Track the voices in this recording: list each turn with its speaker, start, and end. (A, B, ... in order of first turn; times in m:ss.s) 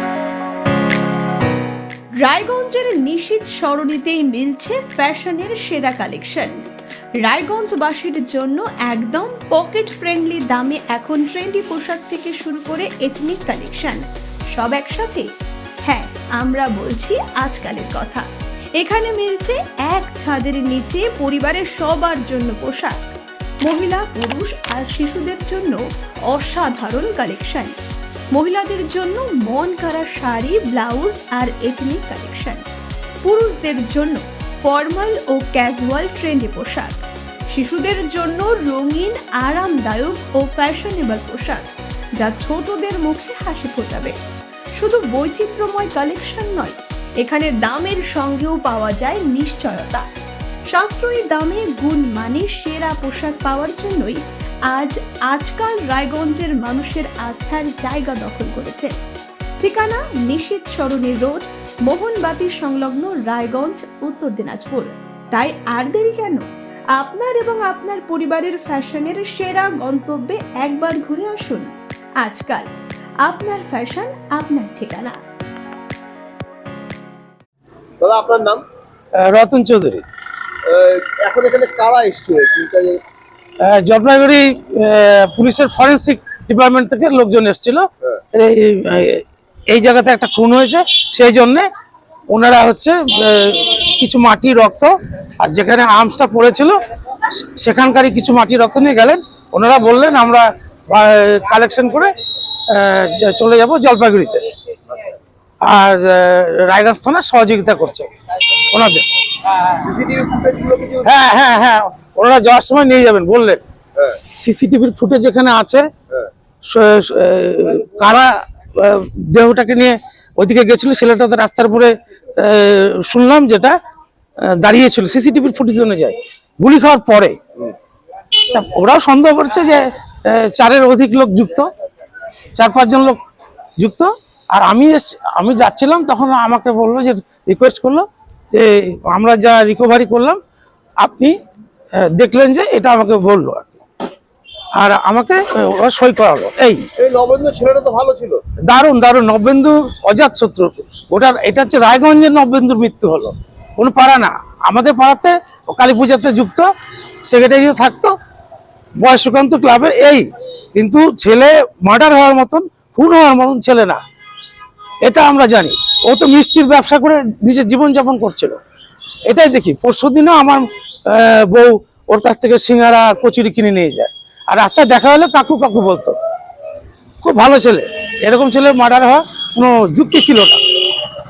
0:02.2-0:06.6 A
0:07.2-0:14.0 A
0:14.5-0:15.3 A
0:15.8-0:18.2 A
0:18.8-0:23.0 A
0:23.6-0:27.7 A
0:28.3-0:32.6 A
0:33.2-0:37.0 A
0:37.5-0:44.1 A
0:44.8-0:50.0 A
0:50.7-0:58.9 A
0:59.6-1:11.7 A
1:12.2-1:12.7 A
1:13.2-1:15.2 A
1:18.0-1:18.6 B
1:19.2-1:20.0 C
1:20.6-1:23.0 B
1:23.6-1:31.7 C
1:32.3-1:42.1 C
1:42.7-1:44.4 C
1:45.6-1:49.7 C
1:49.8-1:51.2 B
1:51.0-1:53.6 C
1:54.0-1:54.2 B
1:54.3-1:55.9 C
1:56.7-2:03.8 C
2:04.4-2:07.4 C
2:08.4-2:11.7 C
2:12.6-2:13.2 C
2:13.8-2:20.4 C
2:21.0-2:21.3 C
2:22.0-2:23.8 C
2:24.8-2:26.8 C
2:27.0-2:28.4 B
2:28.6-2:36.7 C
2:37.2-2:38.1 C
2:39.0-2:44.0 C
2:45.0-2:48.6 C
2:49.3-2:56.2 C
2:57.2-3:00.6 C